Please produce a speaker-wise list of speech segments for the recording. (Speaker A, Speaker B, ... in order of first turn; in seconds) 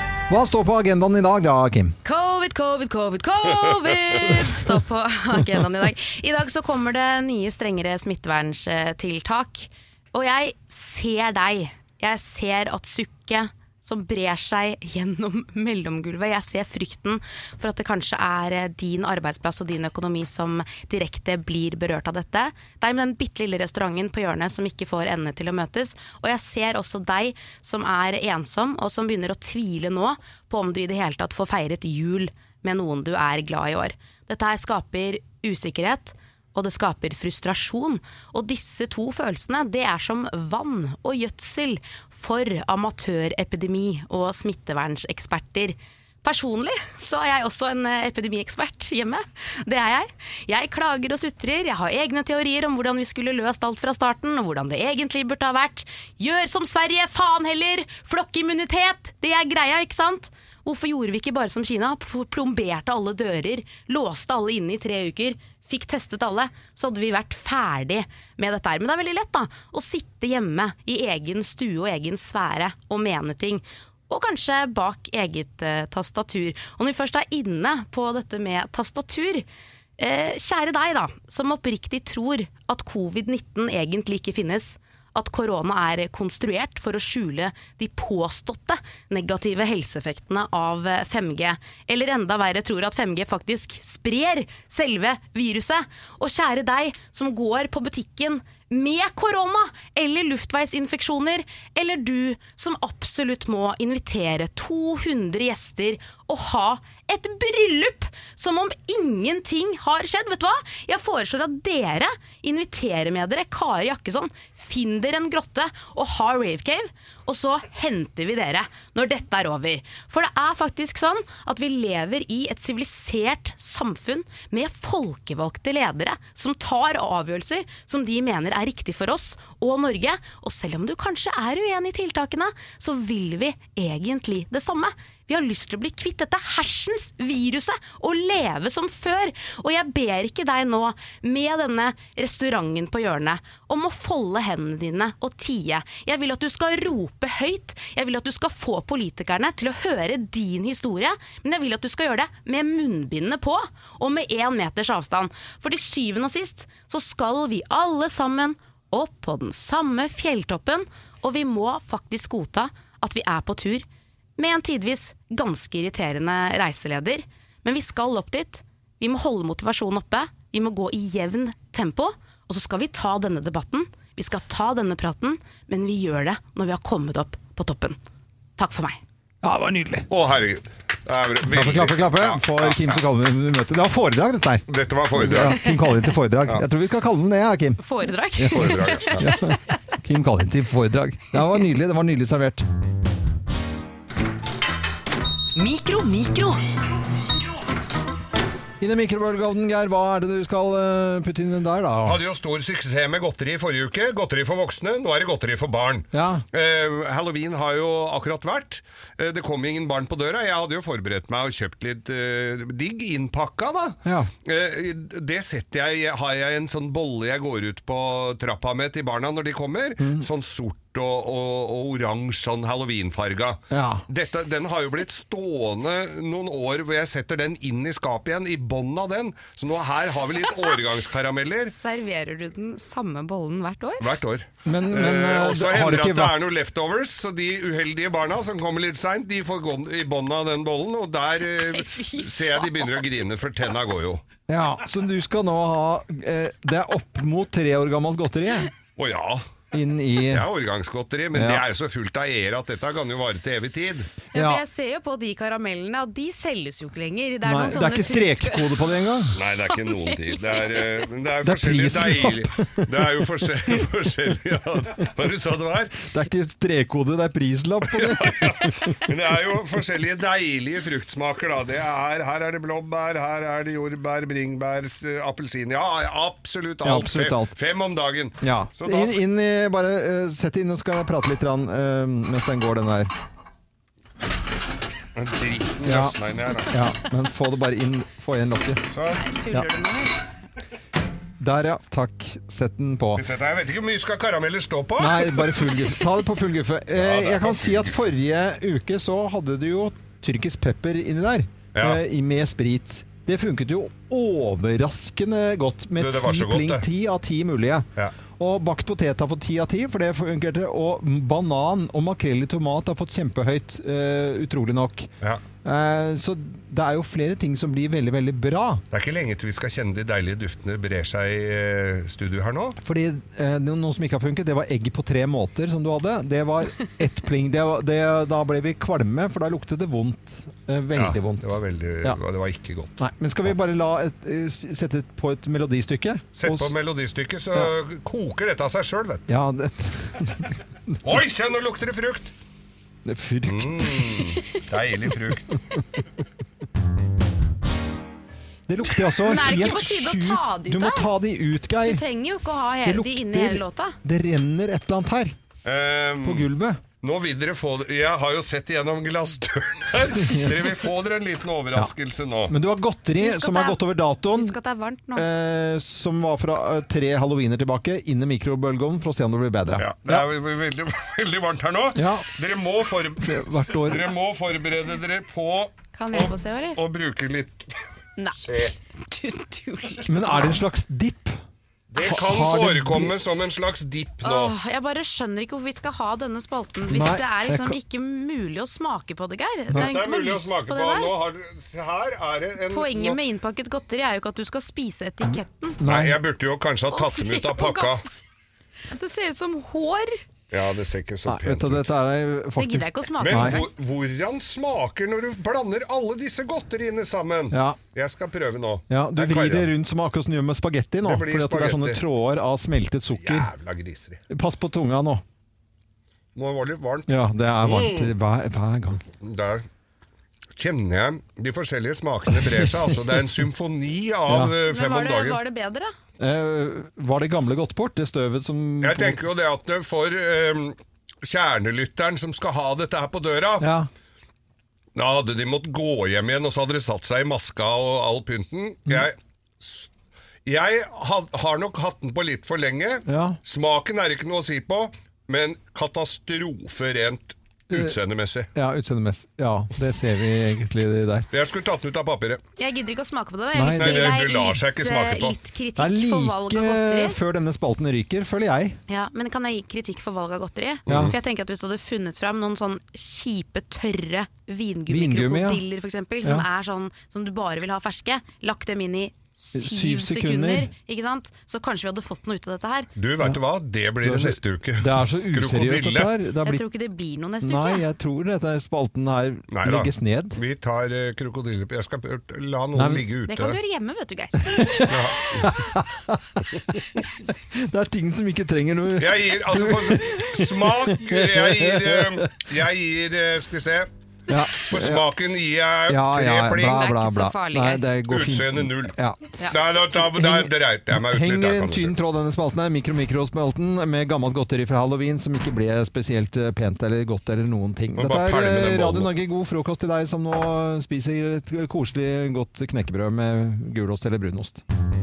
Speaker A: 0.3-2.0, 179.4-180.1, 181.5-187.8, 188.4-192.6, 198.8-202.2, 206.1-206.4, 214.0-214.3, 220.0-220.3, 223.7-224.0, 234.6-236.4, 244.5-248.7, 249.7-250.5, 251.3-251.6, 254.3-254.6, 257.4-259.4, 261.4-263.4, 266.0-269.0, 276.8-277.5, 278.4-283.1, 285.8-288.8, 291.4-293.2, 295.0-315.1, 315.6-318.8, 322.8-332.2, 333.0-336.7, 339.3-341.2, 343.1-344.4, 348.7-352.0, 352.8-355.4, 356.2-356.8, 360.2-360.7, 362.5-364.6, 365.1-370.3, 371.9-372.3, 373.2-374.1, 380.1-381.4, 382.0-383.1, 386.9-387.8, 395.8-396.2, 401.3-403.6, 407.5-407.8, 408.9-413.5, 414.3-415.2, 417.1-419.0, 422.4-422.9, 424.3-424.6, 426.2-429.2, 433.6-433.9, 443.1-443.4, 448.6-451.3, 453.5-454.2, 455.8-458.8, 460.9-461.1, 464.9-465.6, 469.5-470.7, 474.0-476.6, 477.4-480.4, 482.8-483.1, 484.4-492.3, 494.3-495.1, 495.9-499.3, 499.9-514.6
Speaker B: 2.0-79.5, 80.0-163.9, 164.4-178.0, 178.6-179.0, 187.8-189.8, 195.6-196.6, 231.7-234.1, 241.6-243.0, 254.3-258.9, 259.7-260.8, 289.2-290.2, 349.2-351.1, 351.8-354.0, 363.2-363.8, 364.3-365.3, 376.0-376.8, 379.0-380.6, 384.2-391.1, 392.7-395.8, 396.9-398.0, 398.9-400.2, 402.6-403.7, 424.7-425.9, 452.6-457.2, 458.9-472.9, 476.4-477.9, 483.3-484.7, 496.6-497.8
Speaker C: 180.1-182.9, 184.7-185.6, 188.5-189.3, 202.1-231.8, 234.0-244.2, 249.0-249.4, 250.3-254.1, 259.4-266.0, 267.9-279.2, 285.1-286.8, 288.9-289.2, 293.2-295.8, 297.0-298.0, 301.7-302.0, 306.0-306.9, 318.9-322.8, 330.9-333.0, 336.4-339.2, 341.0-342.3, 343.5-345.6, 355.6-356.5, 357.0-362.6, 369.8-377.7, 378.4-378.8, 381.9-384.5, 389.7-393.2, 395.8-398.0, 400.5-401.9, 403.2-409.7, 411.0-412.0, 413.2-414.2, 416.4-417.1, 417.6-418.1, 419.2-419.6, 420.6-425.4, 428.8-433.7, 435.0-439.9, 440.5-448.5, 451.3-452.4, 453.8-455.4, 460.9-461.1, 473.0-476.1, 479.5-483.6, 484.9-485.5, 489.0-493.9, 494.6-496.9, 498.1-498.9, 499.5-502.0, 507.9-509.1